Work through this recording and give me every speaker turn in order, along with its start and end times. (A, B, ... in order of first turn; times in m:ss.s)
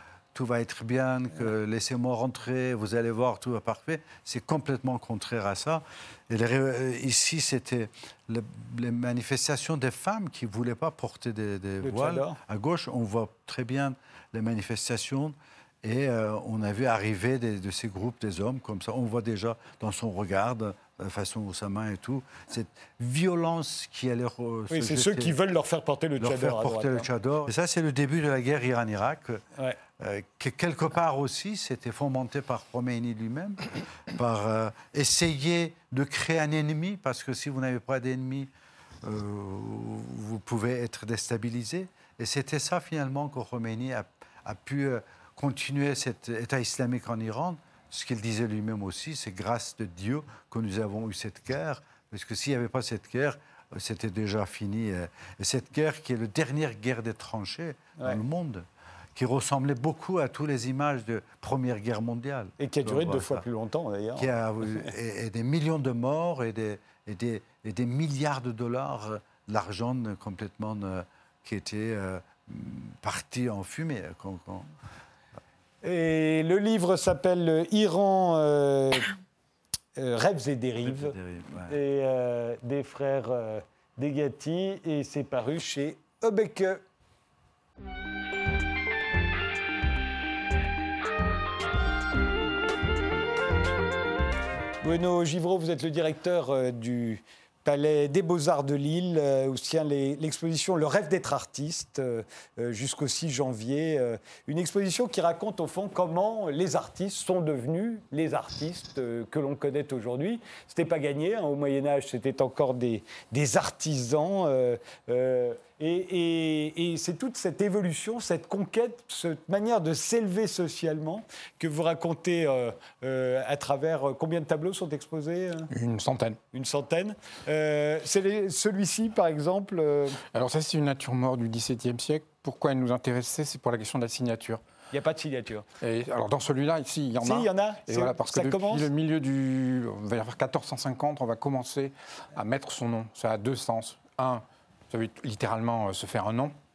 0:00.3-0:25.4 A
0:11.8-0:12.4 B
0:24.7-0:27.0 B
0:26.2-0:29.4 A
0:30.0-0:38.5 A
0:39.0-0:58.6 A
0:59.2-1:03.4 A
1:02.6-1:04.8 B
1:04.2-1:14.7 A
1:15.8-1:19.1 B
1:20.0-1:21.2 B
1:20.8-1:21.8 A
1:21.7-1:26.8 B
1:34.8-2:05.7 B
2:05.7-2:06.4 C
2:06.5-2:10.2 B
2:10.3-2:14.6 C
2:14.9-2:15.6 B
2:15.8-2:26.5 C
2:17.2-2:18.9 B